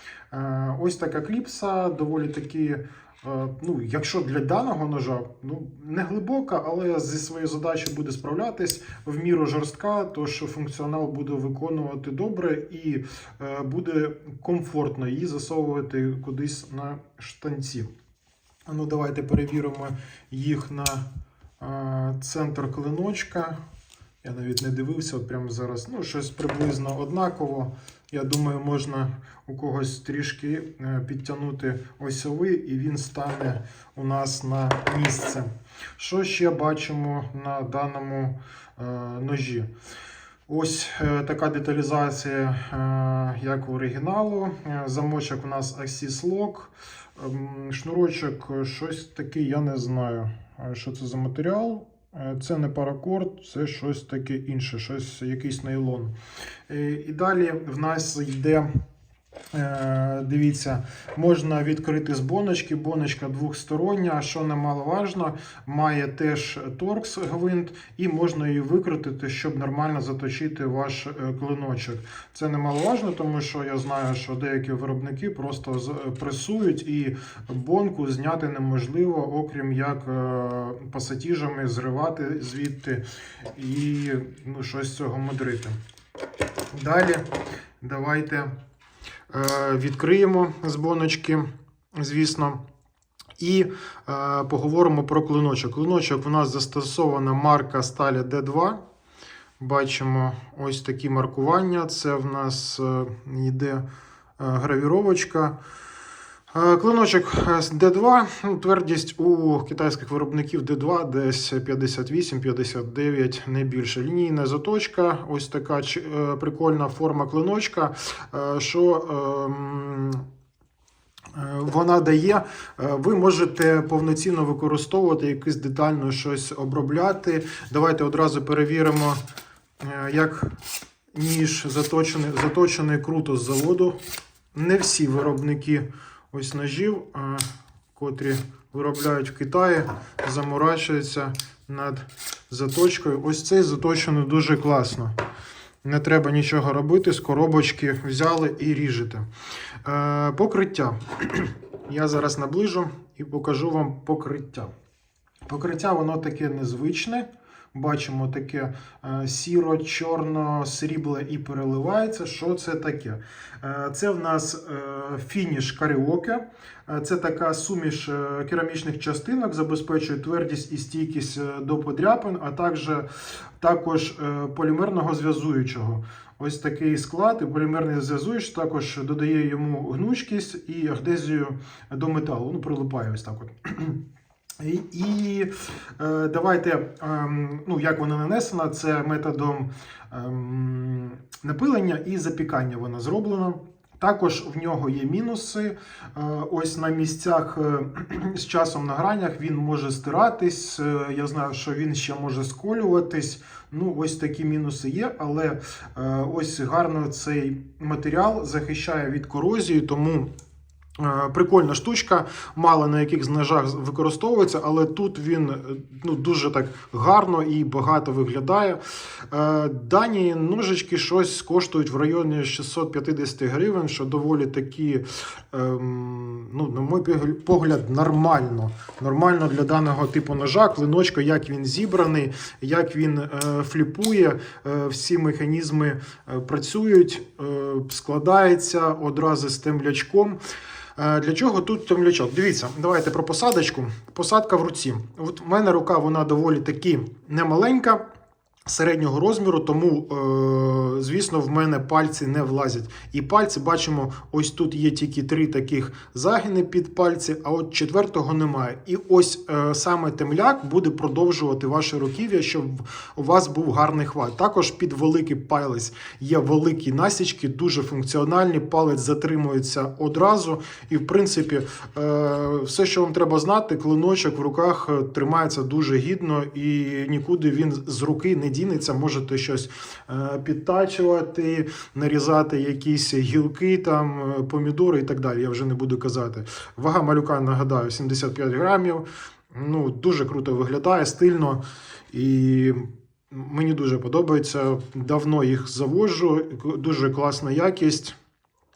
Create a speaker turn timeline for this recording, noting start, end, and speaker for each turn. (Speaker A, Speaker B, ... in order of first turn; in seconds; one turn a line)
Speaker A: 0.3-17.9
Speaker A: 18.6-21.0
Speaker A: 21.6-23.6
Speaker A: 24.2-39.7
Speaker A: 40.5-56.1
Speaker A: 56.7-58.7
Speaker A: 59.5-85.8
Speaker A: 86.7-87.2
Speaker A: 87.8-88.5
Speaker A: 89.3-92.6
Speaker A: 93.4-98.8
Speaker A: 99.6-103.8
Speaker A: 104.4-105.6
Speaker A: 106.5-120.2
Speaker A: 121.3-129.2
Speaker A: 129.8-130.5
Speaker A: 131.1-134.0
Speaker A: 134.5-145.1
Speaker A: 145.8-149.3
Speaker A: 149.8-154.7
Speaker A: 155.5-173.1
Speaker A: 173.6-184.0
Speaker A: 184.6-210.3
Speaker A: 211.0-240.4
Speaker A: 240.9-248.0
Speaker A: 248.7-298.1